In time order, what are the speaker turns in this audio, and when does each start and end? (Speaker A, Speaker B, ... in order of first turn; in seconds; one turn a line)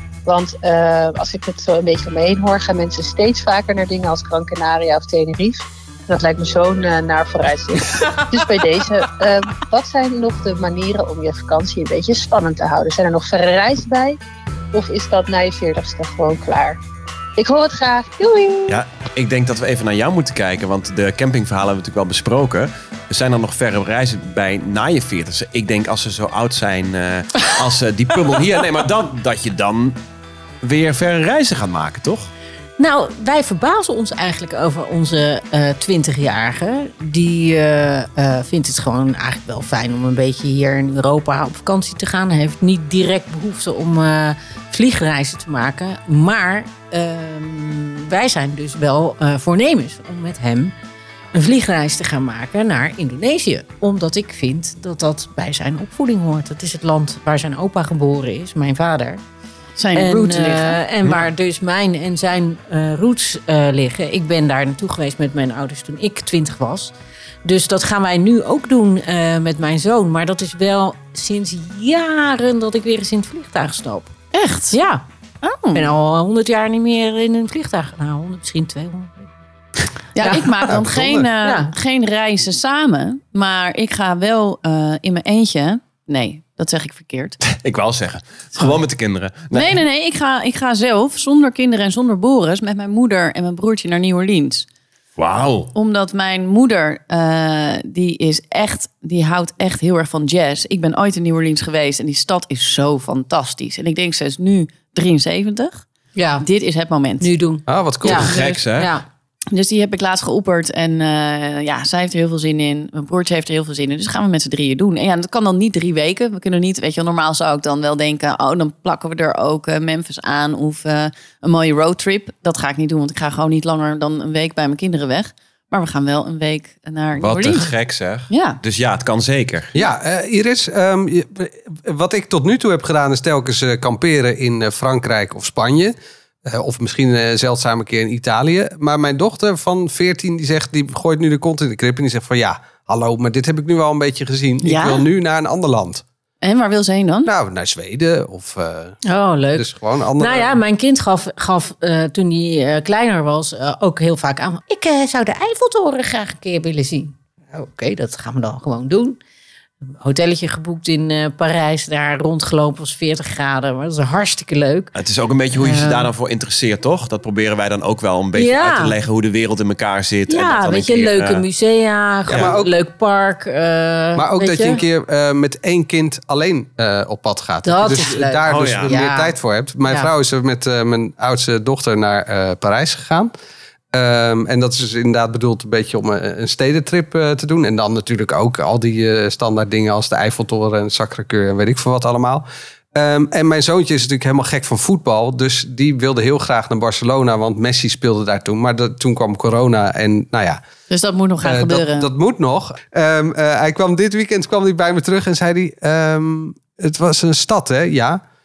Speaker A: 0.2-14.2
Speaker A: 14.7-16.8
Speaker A: 17.4-18.8
Speaker B: 18.7-30.0
Speaker B: 30.6-32.3
Speaker C: 32.8-50.7
Speaker C: 51.3-59.2
Speaker D: 59.8-60.8
Speaker C: 59.9-66.9
Speaker C: 67.4-74.1
Speaker D: 74.3-74.8
Speaker C: 74.7-75.0
Speaker D: 75.4-75.9
Speaker C: 75.7-79.3
Speaker D: 80.1-87.4
Speaker C: 80.2-80.8
Speaker E: 80.6-81.3
Speaker C: 81.4-81.7
Speaker B: 87.4-89.8
Speaker D: 89.5-94.7
Speaker B: 95.2-95.7
Speaker D: 95.7-105.8
Speaker C: 106.2-106.5
Speaker D: 106.4-107.3
Speaker C: 107.2-109.0
Speaker E: 107.7-108.4
Speaker B: 108.0-108.9
Speaker D: 109.5-127.7
Speaker B: 127.2-129.7
Speaker D: 128.3-128.6
Speaker E: 129.7-146.0
Speaker D: 144.6-145.1
Speaker D: 146.4-147.3
Speaker E: 147.2-149.0
Speaker C: 149.0-159.2
Speaker E: 149.6-150.6
Speaker C: 160.0-164.9
Speaker B: 164.9-171.4
Speaker C: 165.6-166.1
Speaker C: 168.3-169.0
Speaker C: 170.3-174.8
Speaker E: 172.3-172.7
Speaker E: 174.2-183.3
Speaker C: 177.6-179.3
Speaker B: 178.5-179.0
Speaker E: 183.9-200.6
Speaker D: 200.9-202.1
Speaker E: 201.4-208.2